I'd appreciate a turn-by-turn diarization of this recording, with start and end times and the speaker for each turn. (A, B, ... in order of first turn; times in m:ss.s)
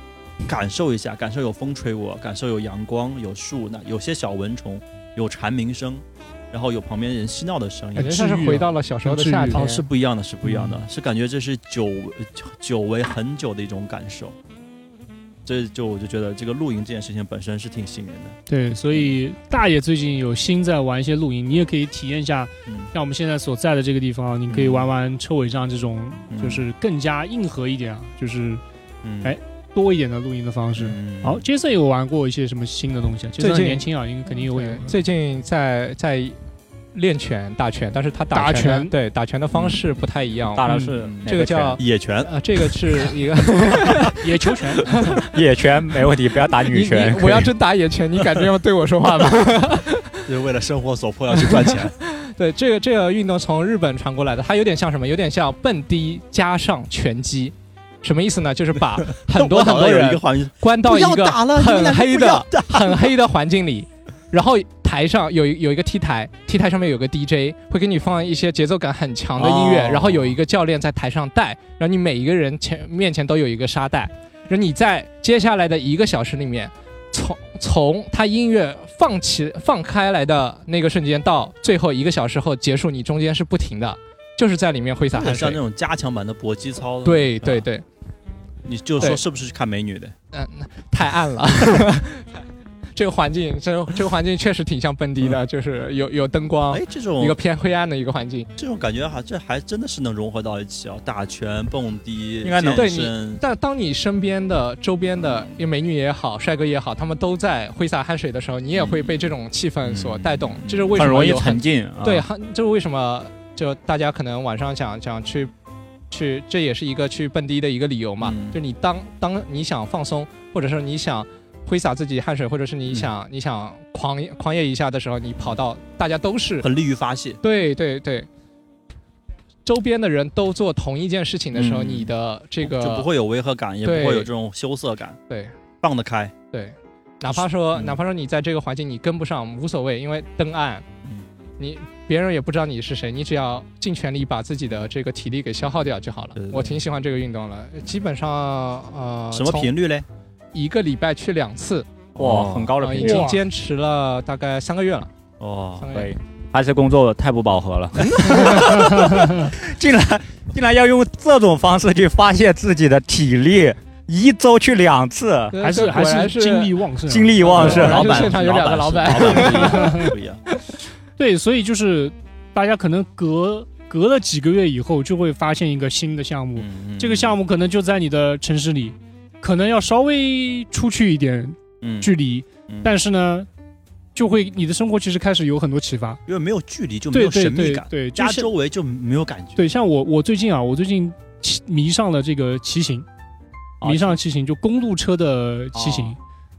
0:00.4-0:08.5 A
0:07.9-0:09.8 B
0:08.0-0:09.7 C
0:09.5-0:14.3 A
0:10.4-0:10.8 C
0:15.4-0:18.4 A
0:18.5-0:28.6 C
0:24.5-0:24.9 A
0:26.3-0:26.6 A
0:29.0-0:29.3 A
0:29.2-0:35.0 C
0:30.8-0:31.4 A
0:33.4-0:36.4 B
0:36.9-0:44.2 B
0:38.3-0:38.9 C
0:39.5-0:39.8 A
0:40.5-0:41.8 D
0:40.7-0:40.9 C
0:41.0-0:42.3 A
0:44.2-0:45.1 C
0:44.9-0:45.4 B
0:45.2-0:47.5 D
0:46.6-0:50.3 B
0:50.2-0:51.9 A
0:51.3-1:25.6 B
0:59.3-1:03.0 A
1:09.4-1:10.3 A
1:25.1-1:27.6 A
1:27.0-1:27.8 B
1:28.6-1:30.1 A
1:30.3-1:32.4 B
1:32.9-1:38.5 B
1:36.7-1:37.4 A
1:38.6-1:43.4 A
1:42.4-1:42.9 D
1:42.7-1:55.5 B
1:48.7-1:49.3 A
1:49.8-1:51.0 A
1:51.0-1:52.2 D
1:56.1-2:06.7 B
1:58.2-1:58.6 A
2:06.6-2:07.4 A
2:07.4-2:08.3 B
2:09.6-2:13.1 B
2:11.5-2:12.1 A
2:12.6-2:15.2 A
2:13.8-2:14.3 B
2:15.8-2:16.3 A
2:16.5-2:20.8 B
2:17.2-2:18.0 A
2:21.6-2:29.7 B
2:26.4-2:26.8 A
2:29.3-2:30.0 A
2:30.5-2:31.9 B
2:32.2-2:32.7 A
2:32.2-2:33.3 D
2:32.8-2:35.1 B
2:33.0-2:33.4 C
2:35.4-2:35.9 A
2:35.8-2:36.1 B
2:35.9-2:45.6 D
2:38.0-2:39.1 B
2:39.1-2:39.5 C
2:45.5-2:46.8 B
2:45.6-2:48.0 C
2:47.1-2:48.3 D
2:47.4-2:50.7 B
2:47.5-2:50.4 A
2:49.3-2:50.1 C
2:51.2-3:03.5 C
2:56.6-2:57.4 A
3:01.8-3:02.1 A
3:02.7-3:02.9 A
3:04.1-3:06.2 C
3:06.2-3:09.7 A
3:07.1-3:08.5 C
3:09.6-3:13.0 C
3:13.8-3:14.2 D
3:13.8-3:16.2 C
3:15.7-3:16.1 D